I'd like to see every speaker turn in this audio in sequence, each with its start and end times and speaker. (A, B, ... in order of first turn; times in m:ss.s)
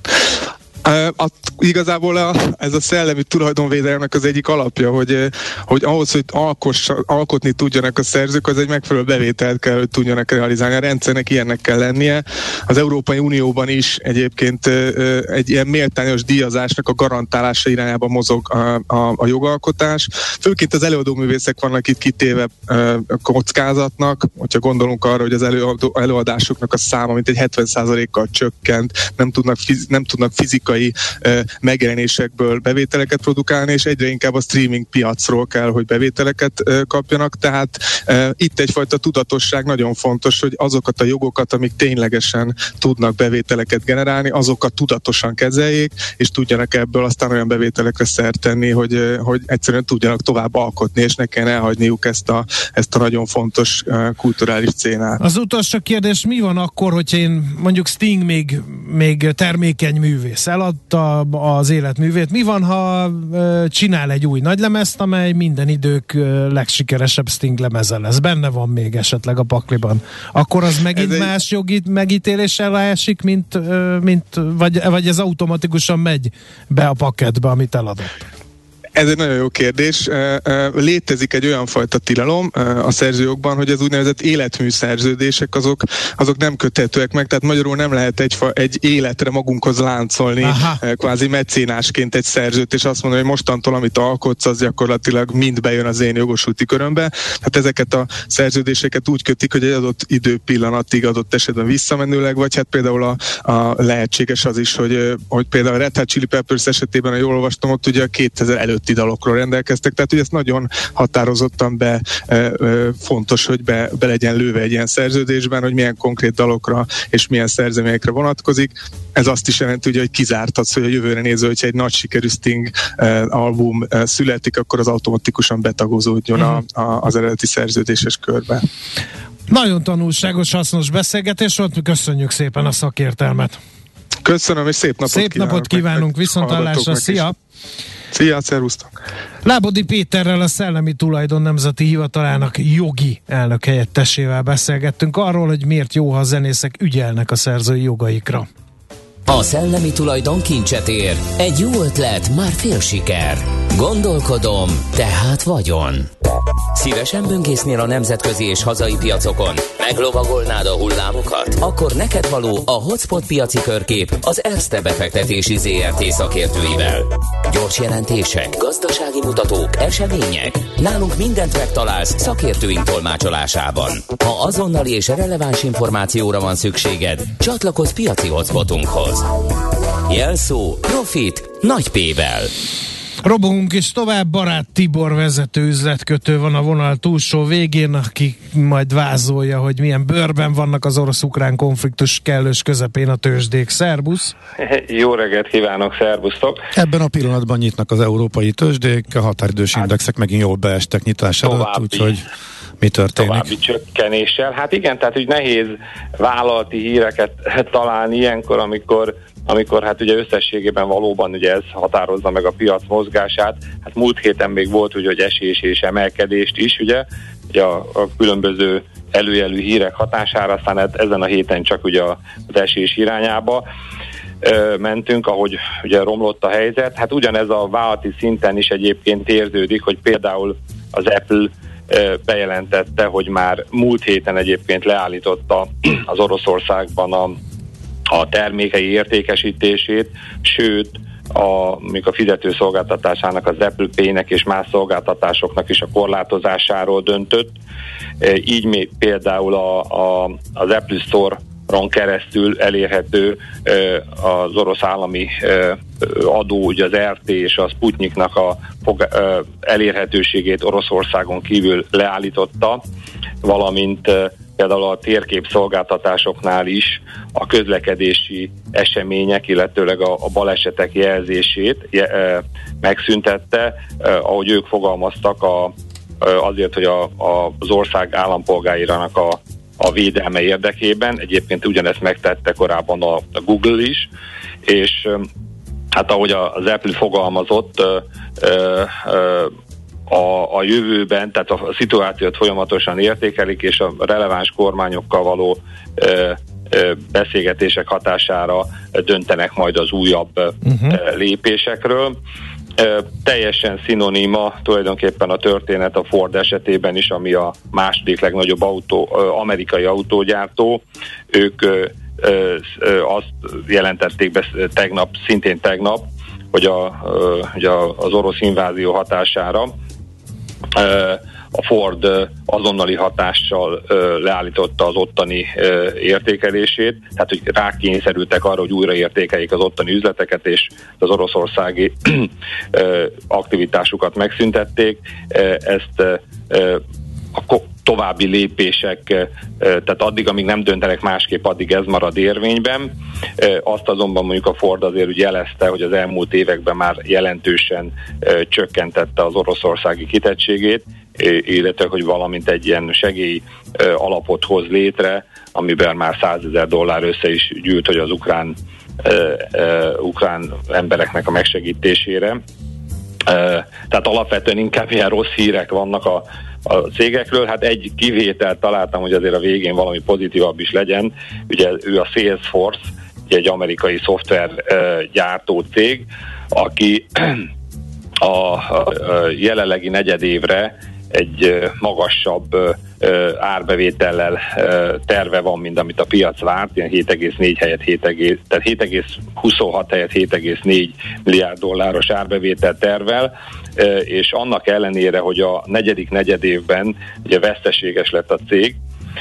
0:00.8-0:55.2 A
0:55.2-1:18.2 B
1:10.9-1:11.3 A
1:19.0-2:08.6 A
1:30.4-1:30.8 B
2:09.5-2:13.6 B
2:14.2-2:17.3 A
2:15.1-2:17.4 B
2:18.1-2:18.9 A
2:19.4-2:28.5 B
2:29.2-2:36.1 C
2:36.7-2:59.3 C
3:00.1-3:02.5 C
3:03.2-3:14.4 B
3:14.6-3:16.6 D
3:16.8-3:22.2 E
3:21.4-3:22.2 D
3:22.8-3:23.5 E
3:23.2-3:43.6 D
3:44.4-3:57.4 D
3:58.1-4:07.6 D
4:08.2-4:22.8 D
4:23.4-4:44.1 D
4:44.6-4:45.3 D
4:45.9-4:49.5 D
4:50.1-5:02.2 D
5:00.6-5:01.0 B
5:02.8-5:19.8 D
5:20.7-5:36.8 D
5:37.4-6:02.4 D
6:03.2-6:17.4 D
6:18.2-6:38.8 D